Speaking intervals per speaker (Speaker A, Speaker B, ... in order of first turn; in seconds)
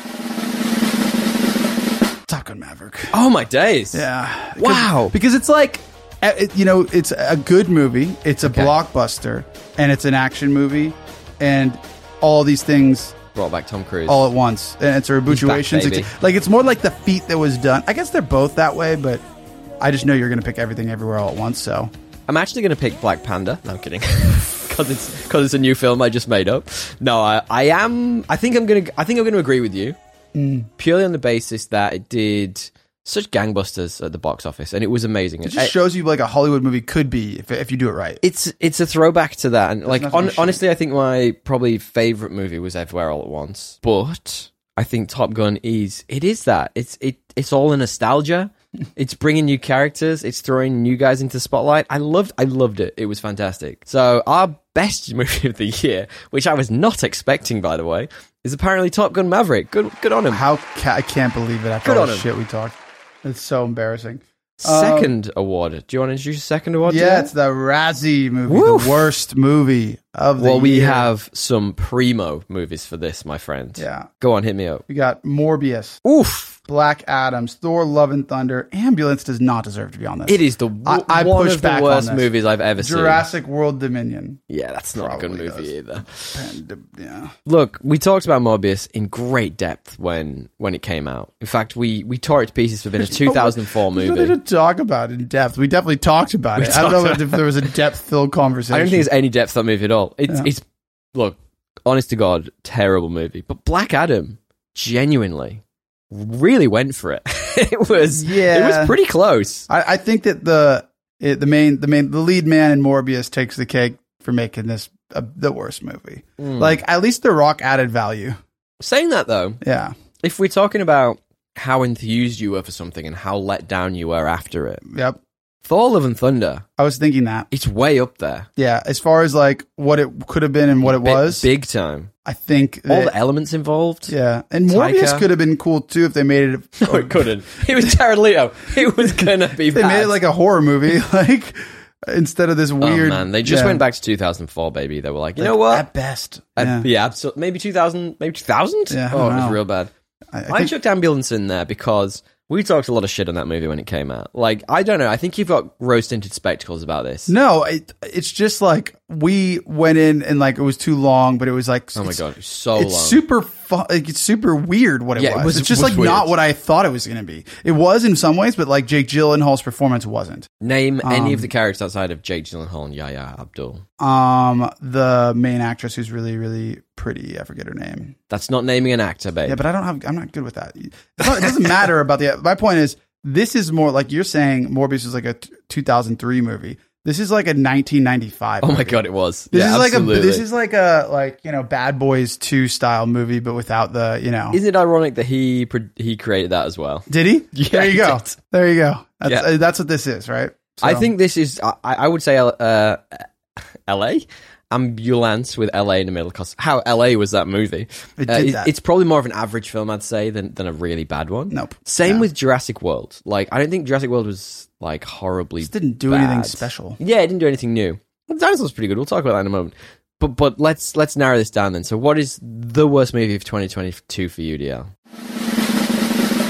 Speaker A: 2.3-3.1, 3.9-13.2, 14.1-19.2, 19.8-21.9, 30.3-30.7, 35.4-38.2, 39.9-40.6, 60.3-65.1, 66.8-71.1, 73.8-74.1, 74.9-76.0, 76.7-84.4, 84.9-85.7, 86.3-87.3, 93.0-99.1, 108.1-109.0, 109.7-118.4, 119.6-119.9, 124.8-125.2, 126.8-127.5, 128.6-131.4, 132.2-133.1, 134.1-138.0, 139.0-143.8, 145.4-146.9, 148.9-149.6, 150.3-150.7, 157.3-162.2, 162.8-170.5, 171.0-171.5, 174.0-178.2, 179.4-189.0, 189.5-194.6, 197.1-201.1, 208.2-208.7, 211.5-212.2, 215.6-217.0
Speaker B: 3.1-4.0, 4.6-5.1, 8.4-8.7, 13.3-14.2, 15.3-16.1, 22.3-30.0, 30.8-35.7, 38.2-60.4, 61.8-62.3, 64.6-67.3, 68.5-69.1, 70.4-74.8, 76.0-76.6, 80.3-83.2, 84.5-86.4, 87.5-94.4, 96.5-97.4, 98.7-109.7, 116.4-116.8, 118.8-119.6, 120.2-124.8, 125.6-126.6, 127.5-128.5, 130.8-132.1, 132.9-134.1, 134.7-135.2, 136.8-140.2, 142.8-145.8, 146.6-149.9, 150.5-157.3, 161.9-163.2, 165.2-166.3, 170.6-173.8, 178.3-179.6, 188.6-190.4, 194.5-198.3, 200.8-203.3, 203.9-224.9